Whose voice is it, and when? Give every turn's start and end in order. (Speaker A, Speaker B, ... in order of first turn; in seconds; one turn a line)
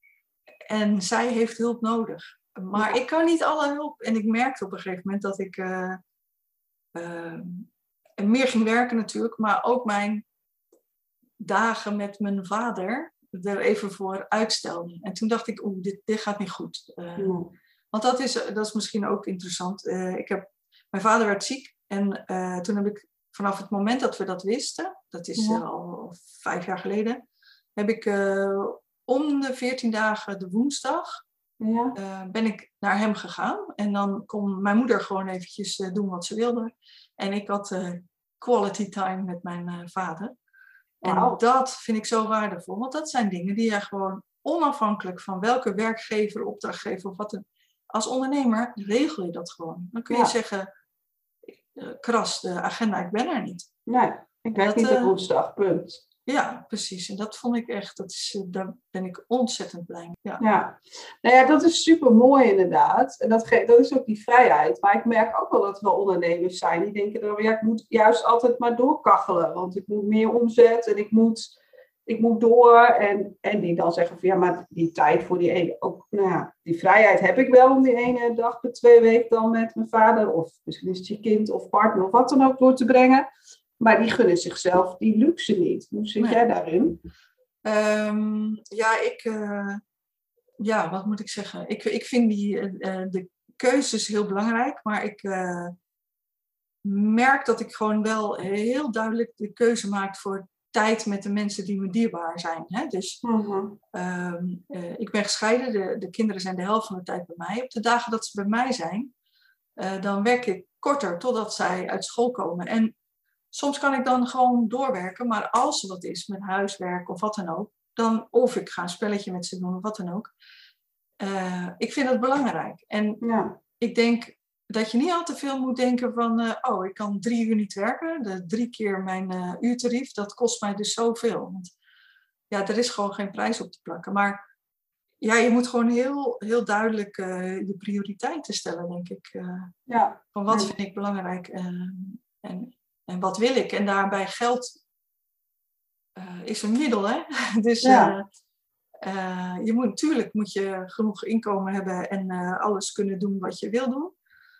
Speaker A: 0.7-6.0
Speaker A: 6.9-10.2
Speaker A: 11.4-17.4
Speaker B: 17.2-17.5
Speaker A: 17.9-27.2
Speaker B: 25.4-25.6
Speaker A: 27.8-31.2
Speaker B: 31.6-31.9
Speaker A: 31.9-40.3
Speaker A: 41.0-50.7
Speaker B: 41.0-41.4
Speaker A: 51.7-53.7
Speaker B: 53.9-56.0
Speaker A: 54.5-55.1
Speaker A: 56.3-60.4
Speaker B: 60.4-71.5
Speaker B: 72.1-83.3
Speaker B: 83.8-87.0
Speaker A: 87.6-89.8
Speaker A: 90.6-95.7
Speaker A: 96.8-103.2
Speaker B: 103.2-103.8
Speaker A: 103.9-109.1
Speaker A: 109.8-112.9
Speaker A: 113.5-120.3
Speaker A: 121.2-123.2
Speaker B: 123.2-123.5
Speaker A: 123.8-131.7
Speaker A: 132.5-134.4
Speaker A: 135.2-139.7
Speaker B: 139.9-140.7
Speaker A: 140.3-144.8
Speaker A: 146.2-148.2
Speaker B: 147.8-148.1
Speaker A: 149.0-154.1